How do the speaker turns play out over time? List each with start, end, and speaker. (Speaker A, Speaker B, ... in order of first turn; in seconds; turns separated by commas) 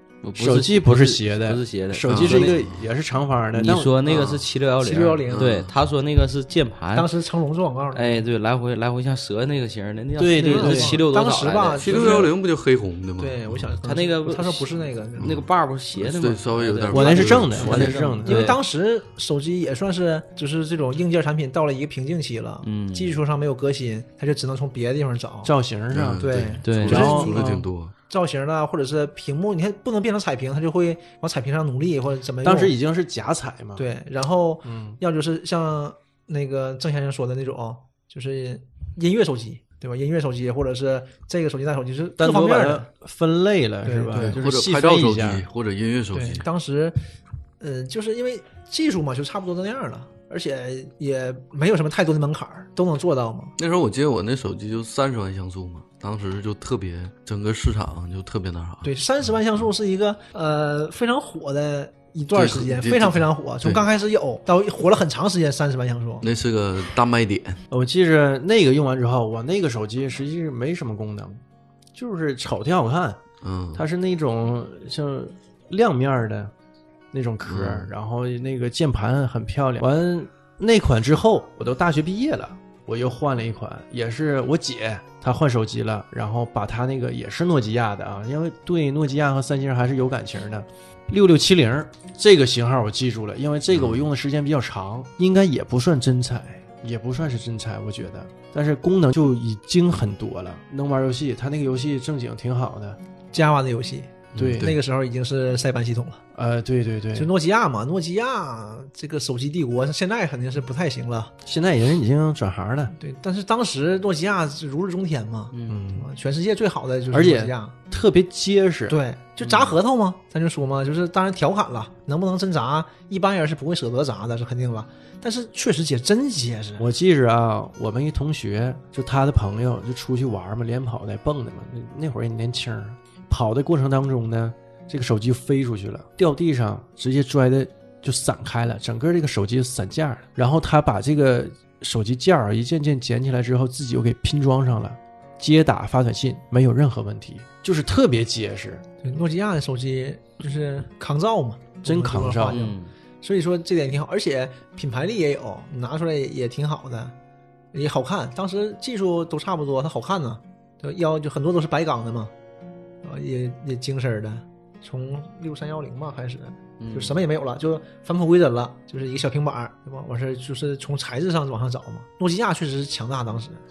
Speaker A: 0.2-2.6, Speaker B: 0.3-4.4, Speaker C: 2.0-2.8, Speaker A: 3.5-7.1, Speaker D: 4.8-5.5, Speaker C: 5.3-5.7, Speaker D: 6.9-8.2, Speaker A: 7.9-12.3, Speaker B: 10.2-11.0, Speaker D: 10.4-12.3, Speaker C: 11.8-13.7, Speaker D: 13.2-15.4, Speaker A: 13.8-18.6, Speaker C: 15.2-17.9, Speaker B: 16.9-18.6, Speaker D: 16.9-25.5, Speaker A: 22.6-23.2, Speaker B: 25.4-27.6, Speaker C: 25.9-27.9, Speaker D: 26.2-32.8, Speaker A: 26.6-27.1, Speaker B: 32.4-33.8, Speaker D: 33.8-42.9, Speaker B: 34.6-35.0, Speaker B: 42.2-45.5, Speaker D: 43.8-44.4, Speaker C: 44.3-46.5, Speaker D: 46.1-47.0, Speaker D: 47.6-53.5, Speaker C: 53.6-58.9, Speaker D: 58.8-66.2, Speaker C: 62.3-63.8, Speaker C: 66.2-67.6, Speaker B: 67.7-71.4, Speaker B: 71.9-73.2, Speaker C: 73.4-73.8, Speaker B: 73.7-76.5, Speaker B: 77.1-103.0, Speaker C: 77.5-77.9, Speaker C: 93.7-94.0, Speaker D: 103.3-106.2, Speaker C: 104.3-104.7, Speaker B: 104.3-104.8, Speaker B: 106.3-107.3, Speaker D: 107.1-111.3, Speaker B: 111.4-112.9, Speaker D: 112.9-117.7, Speaker A: 115.5-115.8, Speaker B: 115.7-116.1, Speaker B: 117.1-119.0, Speaker D: 118.9-126.9, Speaker B: 126.8-148.8, Speaker D: 149.0-157.1, Speaker B: 151.8-152.6, Speaker A: 152.5-152.9, Speaker D: 157.7-162.3, Speaker D: 163.0-173.6, Speaker A: 166.8-167.1